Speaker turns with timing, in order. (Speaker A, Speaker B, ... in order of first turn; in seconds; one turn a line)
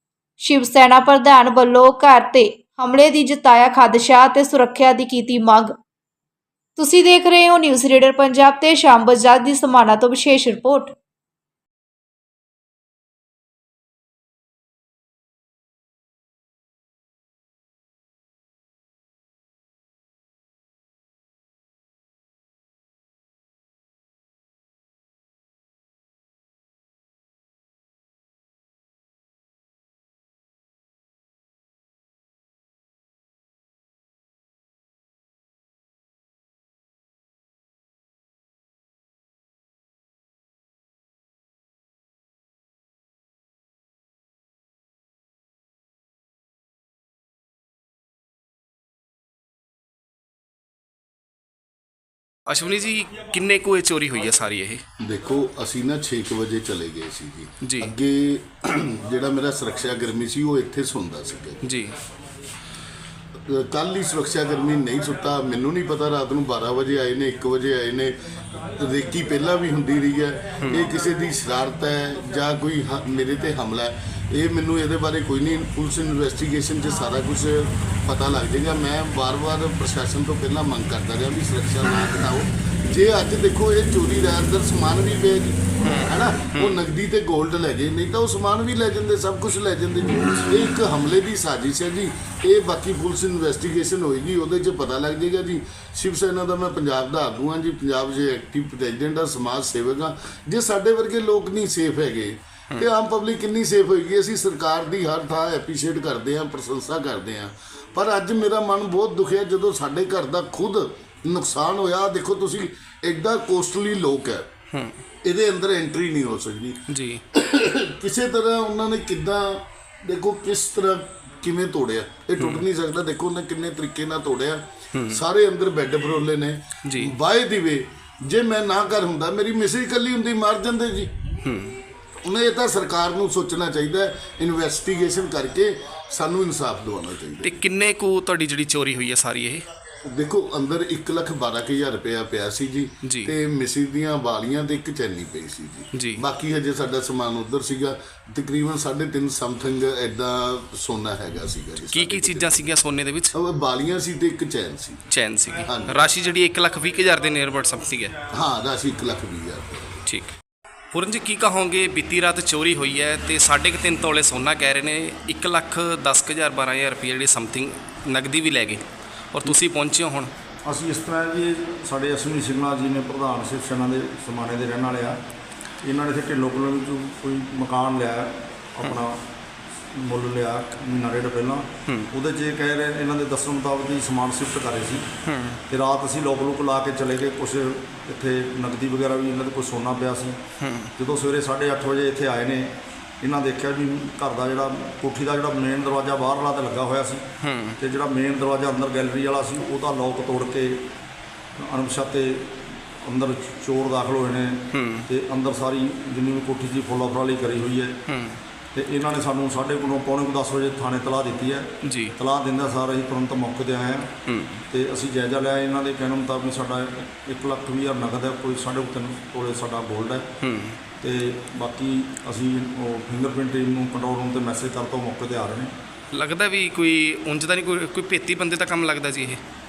Speaker A: 0.4-5.7
Speaker A: 6.8-10.9
Speaker B: 52.5-54.8
Speaker C: 55.0-61.7
Speaker B: 57.6-57.9
Speaker B: 61.6-61.9
Speaker C: 63.4-114.5
Speaker B: 85.8-86.8
Speaker B: 114.7-115.0
Speaker C: 115.2-131.1
Speaker B: 116.9-117.2
Speaker B: 124.9-125.2
Speaker B: 126.9-127.2
Speaker B: 131.4-131.8
Speaker C: 132.2-137.6
Speaker B: 137.4-139.7
Speaker C: 140.0-152.7
Speaker B: 143.0-143.3
Speaker B: 145.9-146.2
Speaker B: 151.9-153.3
Speaker C: 153.3-155.1
Speaker B: 155.1-158.2
Speaker C: 155.6-156.1
Speaker C: 158.3-160.0
Speaker B: 160.1-160.3
Speaker B: 160.9-170.3
Speaker D: 170.7-175.2
Speaker D: 175.8-179.2
Speaker D: 179.9-185.1
Speaker B: 181.9-182.1
Speaker B: 185.2-185.6
Speaker D: 185.7-190.4
Speaker B: 190.6-190.9
Speaker D: 191.0-197.3
Speaker B: 197.4-197.8
Speaker D: 197.8-200.9
Speaker D: 201.6-208.0
Speaker B: 204.7-205.1
Speaker B: 208.1-208.4
Speaker D: 208.7-214.2
Speaker B: 211.8-212.1
Speaker B: 214.3-214.6
Speaker D: 214.7-220.3
Speaker B: 220.4-220.8
Speaker D: 221.0-225.7
Speaker B: 226.1-229.4